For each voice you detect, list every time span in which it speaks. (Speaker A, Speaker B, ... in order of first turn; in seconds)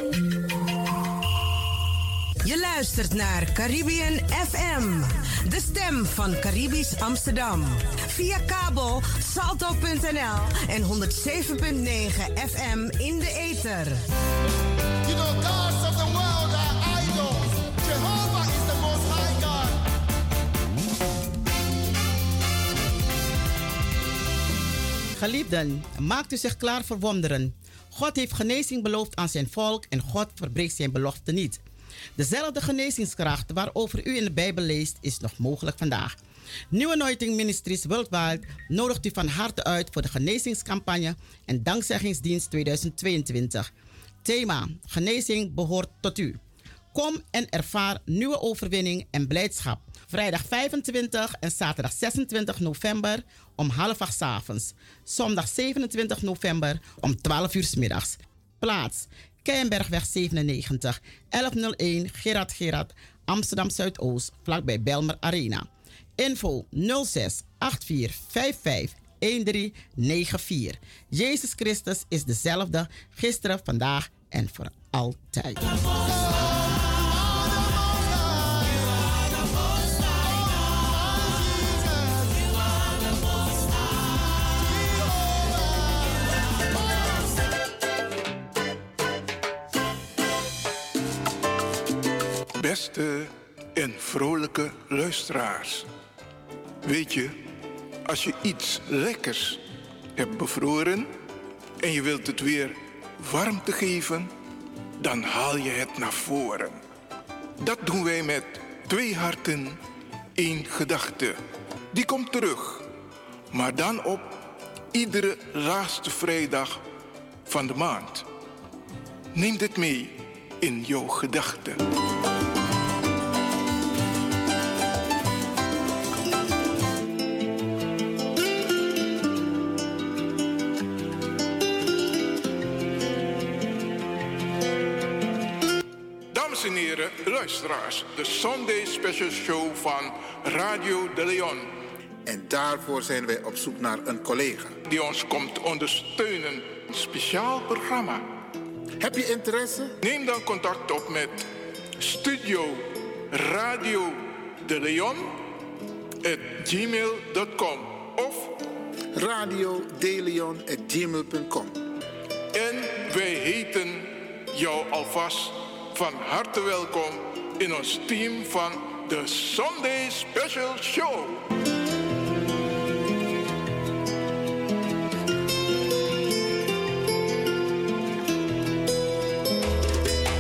Speaker A: 2.4-14.0
Speaker B: 15.0-19.8, 142.2-144.8, 149.0-150.0, 159.2-161.8
Speaker C: 25.2-31.6, 32.2-36.1, 36.7-43.7, 44.2-46.4, 46.9-75.8
Speaker D: 92.6-95.9, 96.8-97.5, 98.0-99.6, 100.2-101.1, 101.8-104.3, 105.0-106.8, 107.6-109.8, 110.4-111.4, 111.9-112.9, 113.5-114.4, 114.9-116.8, 117.5-118.3, 119.3-121.8, 136.3-141.7, 144.9-148.3, 150.0-155.4, 156.2-158.6, 162.5-171.4